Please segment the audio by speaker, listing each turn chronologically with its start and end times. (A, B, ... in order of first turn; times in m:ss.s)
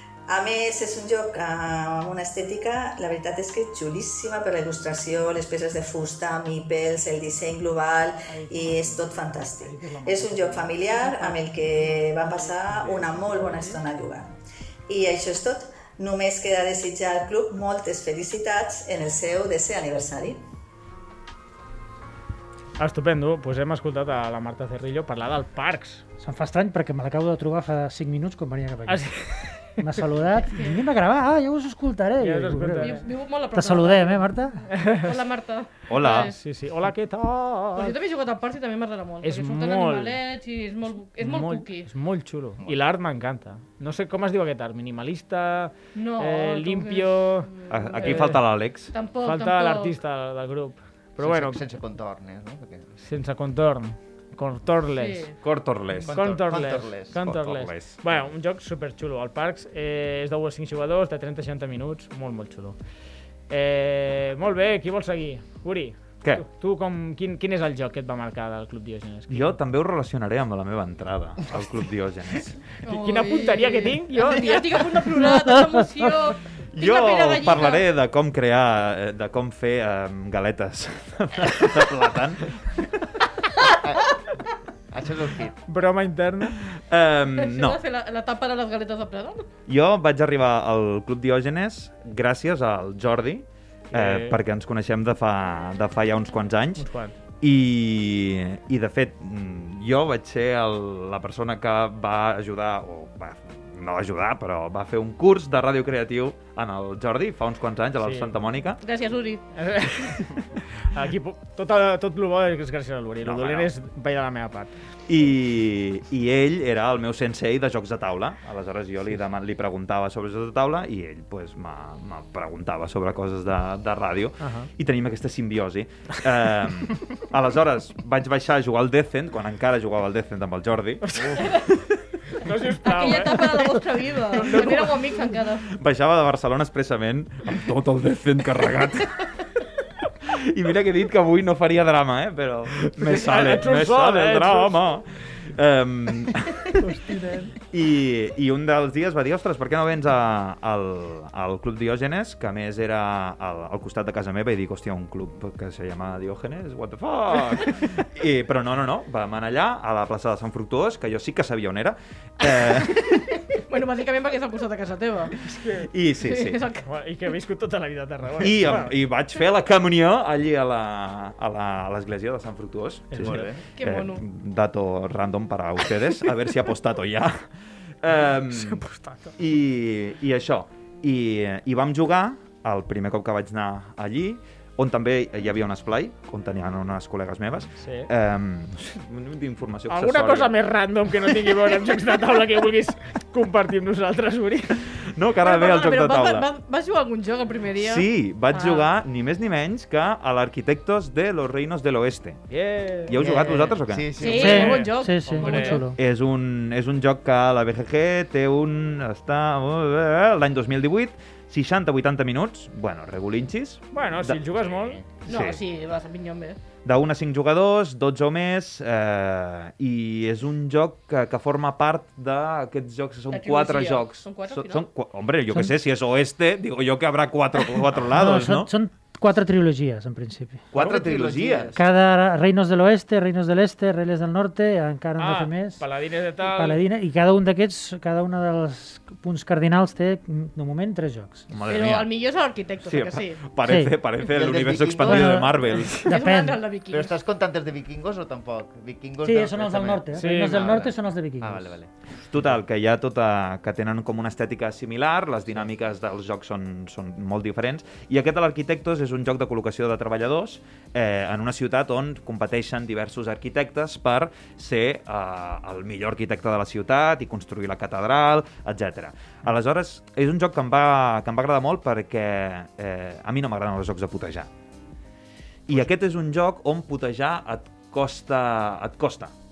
0:00.3-0:14.3 A
0:08.3-0:13.8 B
0:14.9-0:20.4 A
0:22.8-0:26.0 B
0:26.2-0:29.1 C
0:28.9-0:29.7 B
0:29.8-0:34.7 C
0:30.4-0:30.8 D
0:32.2-0:33.0 B
0:32.8-0:34.2 D
0:34.7-0:35.1 B
0:34.9-0:36.4 D
0:35.9-0:36.3 E
0:36.0-0:37.9 B
0:37.8-0:41.9 D
0:39.2-0:40.2 B
0:41.2-0:48.4 B
0:46.0-0:48.3 D
0:47.7-0:48.9 E
0:48.9-0:50.0 D
0:49.2-0:51.6 B
0:51.2-0:52.9 F
0:53.0-0:55.3 B
0:55.0-0:55.4 D
0:55.4-0:56.2 E
0:56.0-0:57.2 F
0:56.1-1:02.8 B
0:57.2-0:58.3 E
1:03.5-1:09.6 B
1:09.3-1:12.6 E
1:12.9-1:17.8 D
1:12.9-1:14.5 B
1:16.7-1:23.2 E
1:23.6-1:24.1 F
1:24.9-1:25.6 F
1:25.7-1:26.6 B
1:26.6-1:27.8 E
1:27.4-1:29.5 D
1:29.7-1:36.9 E
1:33.9-1:34.4 B
1:36.8-1:37.2 B
1:37.4-1:48.8 E
1:48.0-1:48.3 B
1:48.8-1:49.4 D
1:49.5-1:54.7 B
1:53.2-1:53.7 E
1:55.1-2:11.7 E
2:04.4-2:04.7 B
2:11.0-2:11.5 B
2:12.4-2:13.7 B
2:12.8-2:15.7 D
2:14.4-2:14.9 B
2:15.7-2:19.3 E
2:20.2-2:26.7 E
2:22.8-2:24.8 B
2:26.8-2:27.5 B
2:27.7-2:43.3 E
2:43.7-2:45.4 D
2:45.4-2:45.9 B
2:45.8-2:46.6 E
2:46.2-2:46.8 D
2:46.8-2:48.9 B
2:48.4-2:57.5 E
2:53.1-2:53.5 B
2:53.2-2:53.6 F
2:53.8-2:54.2 D
2:58.0-3:10.5 E
2:58.6-2:59.3 B
3:07.8-3:08.1 B
3:09.9-3:14.8 B
3:14.9-3:16.5 E
3:15.4-3:18.9 D
3:17.8-3:22.4 E
3:22.5-3:23.2 B
3:23.0-3:24.3 E
3:23.1-3:24.9 F
3:24.2-3:25.9 D
3:24.3-3:26.0 C
3:24.4-3:25.8 B
3:26.0-3:35.6 E
3:33.9-3:35.0 B
3:35.3-3:36.6 D
3:36.8-3:48.7 E
3:43.3-3:44.9 D
3:48.0-3:50.7 C
3:50.7-3:51.8 E
3:50.7-3:51.8 F
3:51.7-3:55.8 C
3:55.2-3:56.8 B
3:56.4-4:01.5 C
4:01.5-4:02.1 E
4:01.7-4:03.5 D
4:02.8-4:06.1 E
4:03.6-4:04.0 C
4:04.3-4:05.5 F
4:05.0-4:05.5 C
4:06.0-4:07.1 D
4:06.0-4:06.6 C
4:06.9-4:11.9 F
4:09.2-4:11.8 C
4:10.2-4:10.8 B
4:12.2-4:34.5 E
4:35.7-4:39.3 E